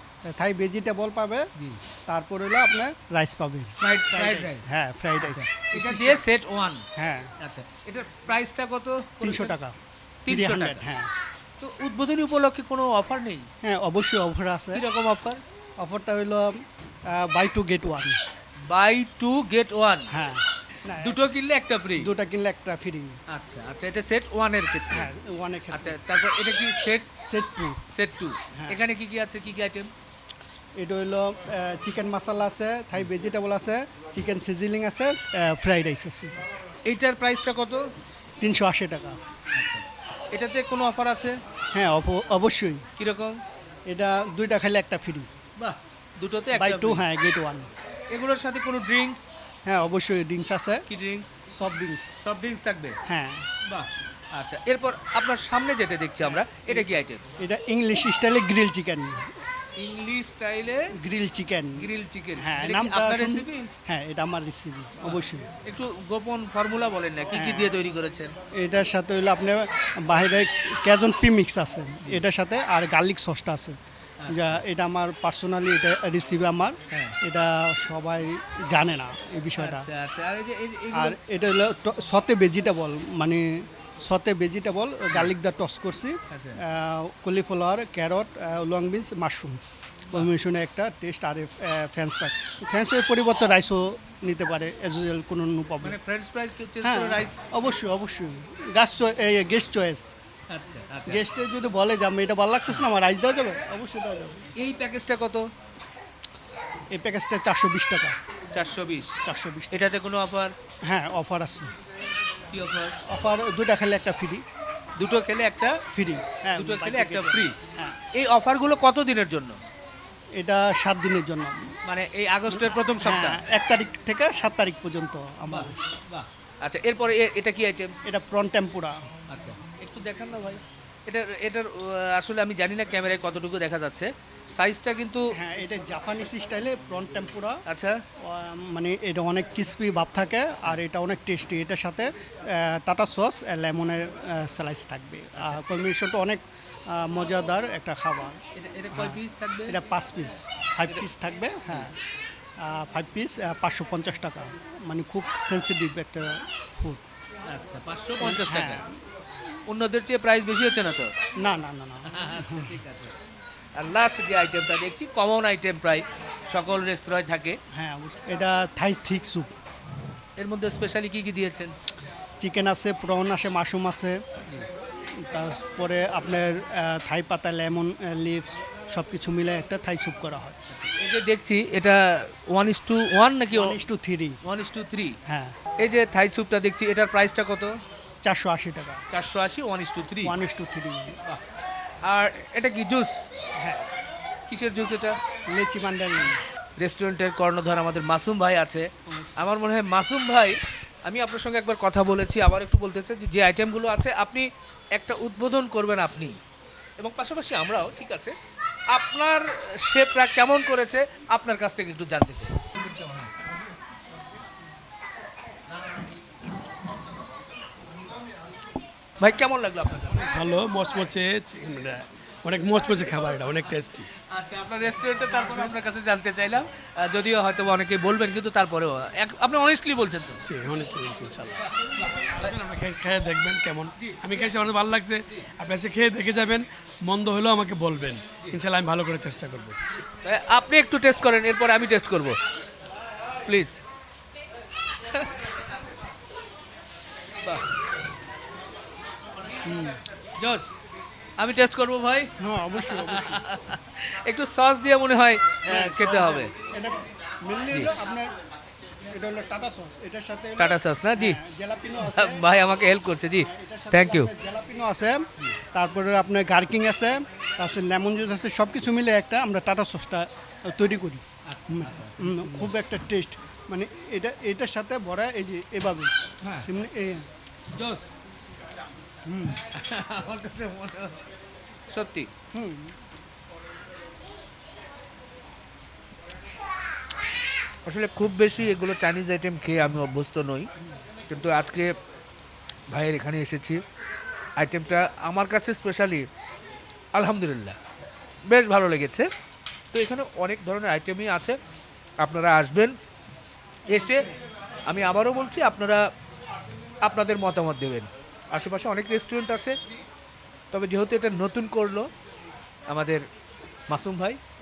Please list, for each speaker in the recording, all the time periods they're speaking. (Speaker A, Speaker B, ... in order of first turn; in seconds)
Speaker A: 0.2-1.5, 2.1-6.2, 7.0-7.3, 9.2-9.7, 10.3-11.1, 13.6-14.8, 15.8-18.2, 20.1-21.2, 22.0-23.1, 24.9-26.0, 27.3-27.8, 28.5-28.8, 30.8-36.3, 38.4-39.2, 41.7-42.8, 43.9-45.3, 46.5-47.7, 49.6-50.8, 51.5-52.0, 53.0-53.5, 56.2-56.9, 57.4-59.3, 61.0-65.5, 67.3-67.7, 68.5-73.8, 74.3-79.9, 80.9-89.6, 90.1-96.0, 96.8-100.1, 101.1-104.5, 106.9-108.2, 109.2-109.8, 110.8-111.7, 113.1-114.4, 115.9-118.0, 120.4-121.6, 122.5-125.8, 128.1-129.0, 135.3-137.6, 138.2-148.4, 148.9-151.9, 152.6-157.1, 158.2-158.9, 161.4-162.8, 167.7-169.5, 172.4-174.2, 175.2-180.6, 183.5-184.4, 185.2-185.5, 188.2-189.0, 190.2-191.2, 193.6-193.8, 195.5-196.4, 249.7-250.0, 252.4-253.4, 255.6-258.3, 259.1-262.4, 263.4-276.1, 276.6-277.2, 279.2-279.6, 282.5-282.9, 303.9-304.3
Speaker B: 3.8-4.7, 5.2-6.8, 7.4-9.5, 10.2-10.8, 11.6-13.4, 14.7-15.4, 18.6-20.1, 21.0-22.1, 23.3-25.1, 25.7-27.1, 27.9-29.9, 36.9-37.9, 39.5-41.4, 43.0-43.4, 45.6-47.0, 48.1-49.2, 50.9-51.3, 52.2-53.0, 53.6-57.2, 59.8-60.9, 61.8-63.7, 65.7-68.3, 74.2-74.5, 76.9-77.2, 79.6-81.2, 86.3-86.6, 95.8-97.4, 100.5-101.2, 104.6-105.5, 108.5-109.1, 109.7-110.5, 112.5-112.9, 115.0-115.8, 116.6-117.5, 118.1-119.6, 121.8-123.4, 125.5-128.0, 129.3-135.3, 137.7-138.0, 145.3-145.7, 148.5-149.8, 157.5-158.8, 159.7-161.1, 162.1-163.1, 163.7-167.6, 170.4-171.7, 180.7-183.8, 184.4-185.2, 185.8-187.8, 189.1-190.3, 192.0-193.2, 194.5-195.2, 196.8-206.4, 207.0-208.3, 208.9-213.1, 219.2-220.4, 224.3-230.4, 231.8-232.3, 234.0-234.3, 240.2-242.4, 243.4-243.8, 250.4-250.7, 251.4-256.5, 260.6-261.4, 262.0-264.3, 271.4-272.7, 276.4-276.7, 277.7-278.0, 279.7-281.3, 281.9-282.3, 287.9-290.7, 291.3-291.9, 292.9-293.8, 294.6-296.3, 297.1-297.8, 298.4-299.3, 299.9-301.6, 302.2-303.0, 303.9-304.3, 304.9-306.0, 307.0-309.7, 310.7-312.1, 312.9-313.2, 313.9-314.4
Speaker C: 220.2-224.1, 230.4-231.6, 232.2-239.8